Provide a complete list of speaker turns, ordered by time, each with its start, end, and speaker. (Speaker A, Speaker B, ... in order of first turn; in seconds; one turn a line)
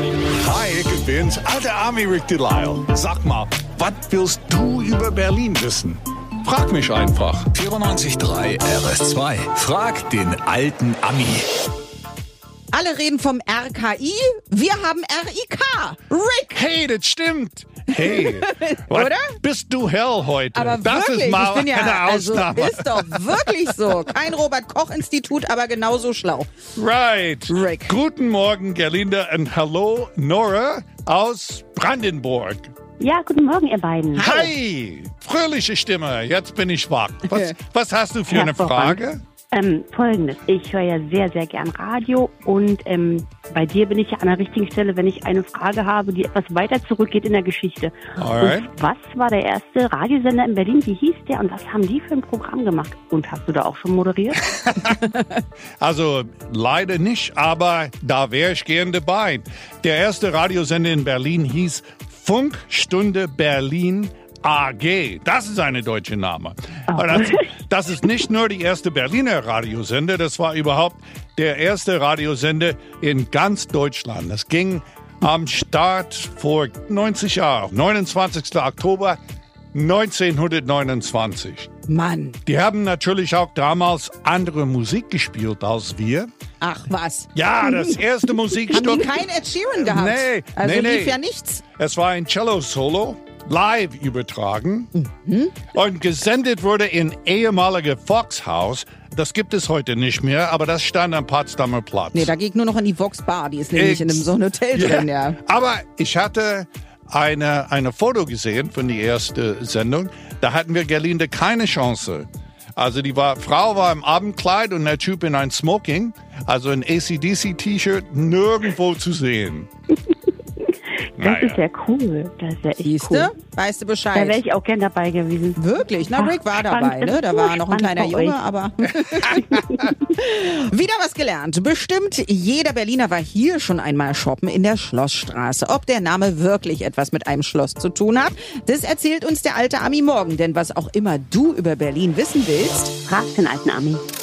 Speaker A: 0.3-7.5
Speaker B: 7.5-11.5
Speaker C: 12.7-16.6
Speaker A: 16.5-23.9
Speaker C: 17.9-19.4
Speaker C: 20.5-26.5
Speaker A: 26.7-32.7
Speaker C: 27.5-28.0
Speaker D: 33.0-34.5
Speaker C: 34.1-34.5
Speaker A: 34.2-39.2
Speaker D: 38.3-39.0
Speaker D: 39.5-54.4
Speaker A: 48.1-48.7
Speaker A: 54.6-55.0
Speaker A: 55.8-79.2
Speaker D: 67.1-67.4
Speaker A: 79.7-81.7
Speaker C: 81.9-82.4
Speaker A: 82.5-86.3
Speaker C: 86.6-87.3
Speaker A: 87.3-89.2
Speaker C: 88.7-91.6
Speaker A: 89.7-91.2
Speaker A: 91.8-94.9
Speaker C: 94.9-95.6
Speaker A: 95.7-102.3
Speaker C: 102.1-105.4
Speaker A: 103.7-119.7
Speaker A: 121.2-121.6
Speaker D: 121.2-123.3
Speaker C: 122.8-124.4
Speaker D: 124.1-128.4
Speaker C: 125.5-142.9
Speaker D: 143.0-144.0